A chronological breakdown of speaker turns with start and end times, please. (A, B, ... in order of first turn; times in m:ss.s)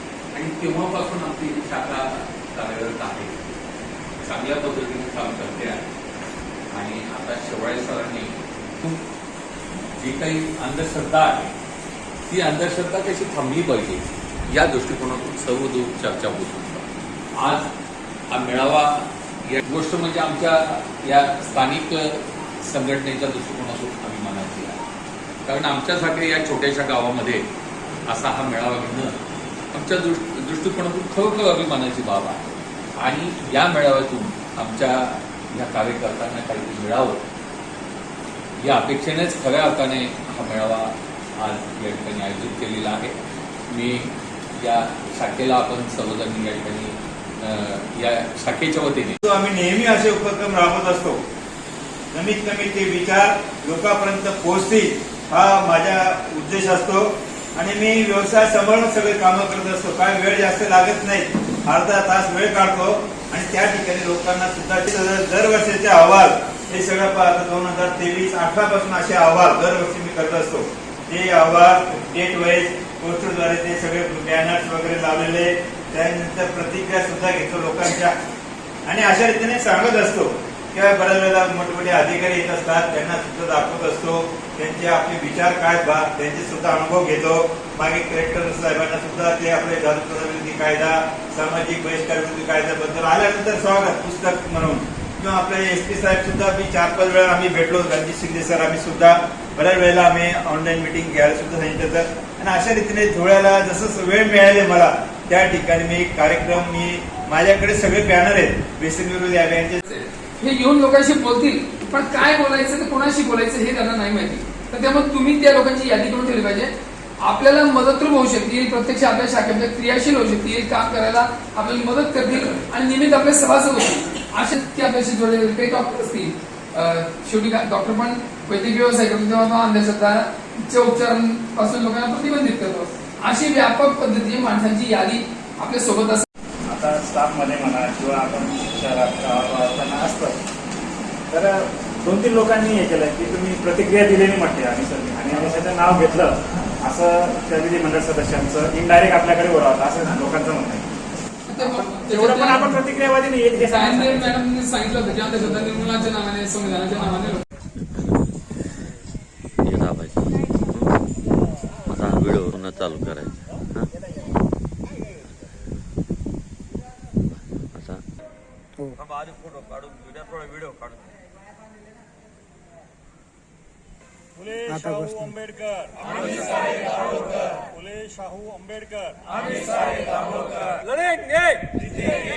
0:00.3-0:03.5 A
0:04.2-0:05.9 A
0:06.7-0:09.0 A
0:09.9-0:11.5 A
0:12.3-0:17.7 A
0:18.3-0:24.8 A
0:25.5-0:27.5 A
0:28.1-0:29.2 A
0:29.7-0:37.2 A
0:38.6-0:43.2 A
0:43.7-0:49.2 A
0:49.2-0:51.2 B
0:52.1-1:18.1 B
1:18.9-1:49.8 B
1:49.9-2:16.3 C
2:16.7-2:20.4 D
2:21.3-2:30.9 D
2:31.5-2:32.8 C
2:31.8-2:34.3 D
2:33.7-2:37.4 C
2:39.6-2:41.0 E
2:41.9-2:43.9 E
2:47.3-2:48.0 E
2:54.4-2:59.2 D